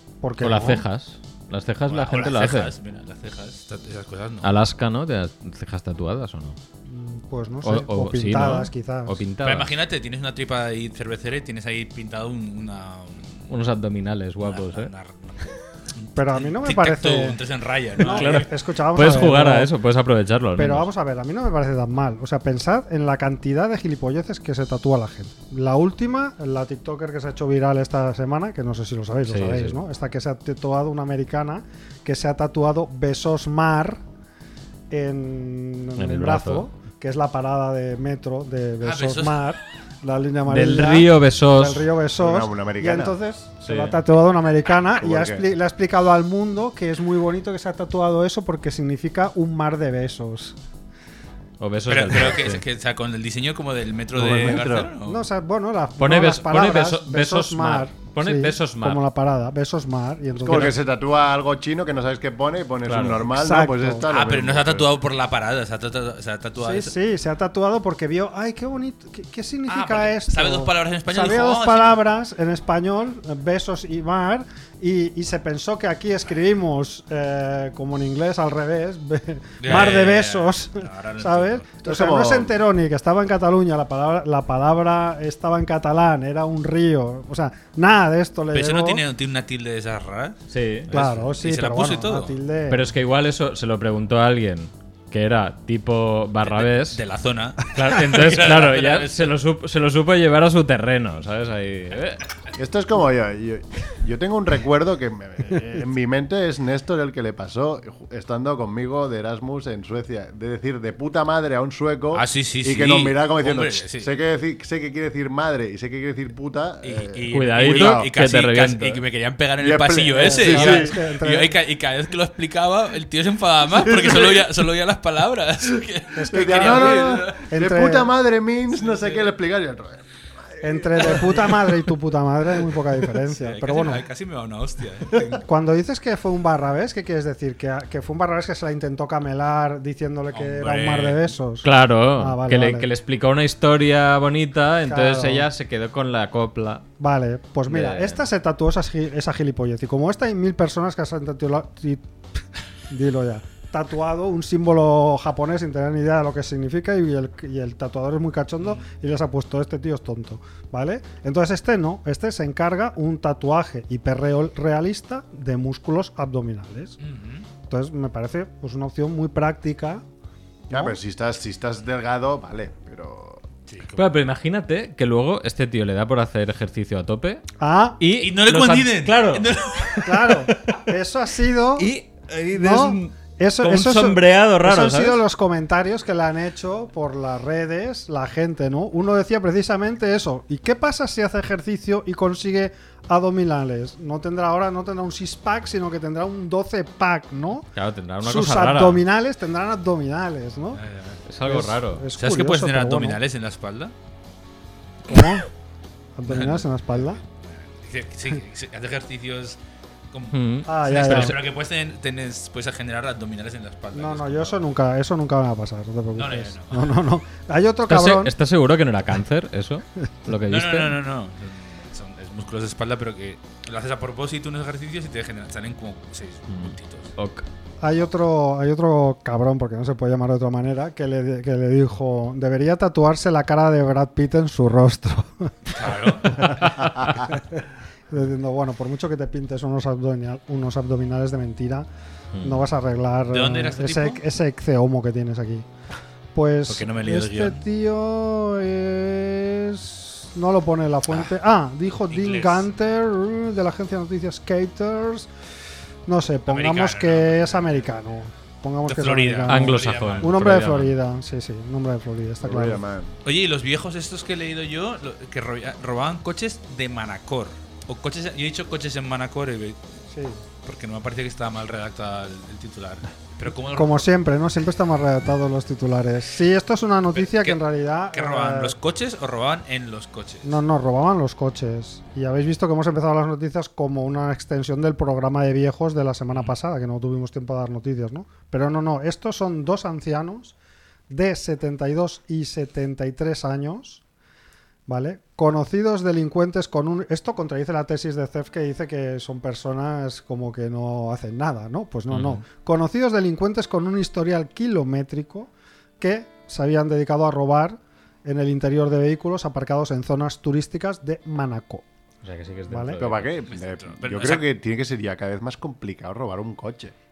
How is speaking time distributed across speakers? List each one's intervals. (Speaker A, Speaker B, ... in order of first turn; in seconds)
Speaker A: 0.2-0.8, 6.8-9.2, 16.1-17.4, 18.0-19.7, 20.6-34.0, 34.9-50.5, 55.0-60.8, 63.3-64.1, 66.6-89.0, 90.9-92.9, 120.2-121.5, 126.1-128.1, 130.6-134.0, 135.4-142.9, 144.9-145.5, 147.0-152.0, 152.9-166.9, 167.7-170.0, 170.7-171.0, 177.6-178.0, 180.0-181.9, 182.5-197.7, 198.2-200.8, 201.4-203.2, 205.1-205.4, 206.2-207.2, 210.7-211.4, 213.9-218.3, 227.8-241.9, 242.4-245.7, 246.3-255.3, 256.1-262.8, 270.1-270.4, 273.7-278.7, 280.4-290.5, 291.1-294.0, 294.9-311.8, 312.7-313.0
Speaker B: 0.4-2.7, 4.4-6.6, 7.6-9.7, 13.5-14.9, 18.0-20.9, 29.3-29.8, 36.0-36.6, 40.5-41.9, 43.6-43.9, 51.6-52.6, 56.0-59.0, 62.9-63.2, 90.5-90.9, 92.7-97.0, 97.6-102.2, 117.3-119.0, 141.6-146.8, 147.7-148.2, 173.9-177.4, 178.0-180.8, 181.8-185.2, 197.7-199.0, 201.2-202.1, 210.3-211.3, 217.9-220.9, 226.5-227.4, 242.3-242.7, 259.5-260.9, 302.1-302.4, 312.2-313.3
Speaker C: 1.9-4.5, 9.4-13.5, 14.4-18.5, 38.8-39.5, 51.9-55.3, 64.1-66.9, 69.7-72.0, 79.6-81.6, 88.5-92.3, 96.4-99.3, 112.1-114.1, 116.8-127.4, 128.8-129.3, 133.3-135.4, 140.3-141.3, 167.0-167.5, 173.7-174.2, 178.2-180.3, 200.7-201.2, 202.2-203.9, 206.3-206.6, 207.4-209.6, 210.1-214.7, 216.2-217.0, 220.5-227.1, 235.8-236.9, 243.3-244.2, 246.7-247.6, 252.1-252.7, 256.5-257.8, 258.9-260.4, 263.2-269.8, 270.6-274.1, 277.1-277.6, 278.1-280.6, 313.5-314.4
Speaker D: 42.2-43.2, 45.0-45.5, 54.1-54.9, 60.4-64.9, 81.8-82.5, 102.5-118.1, 119.6-121.0, 123.7-124.5, 126.3-131.7, 170.7-173.4, 262.4-263.1, 313.0-316.9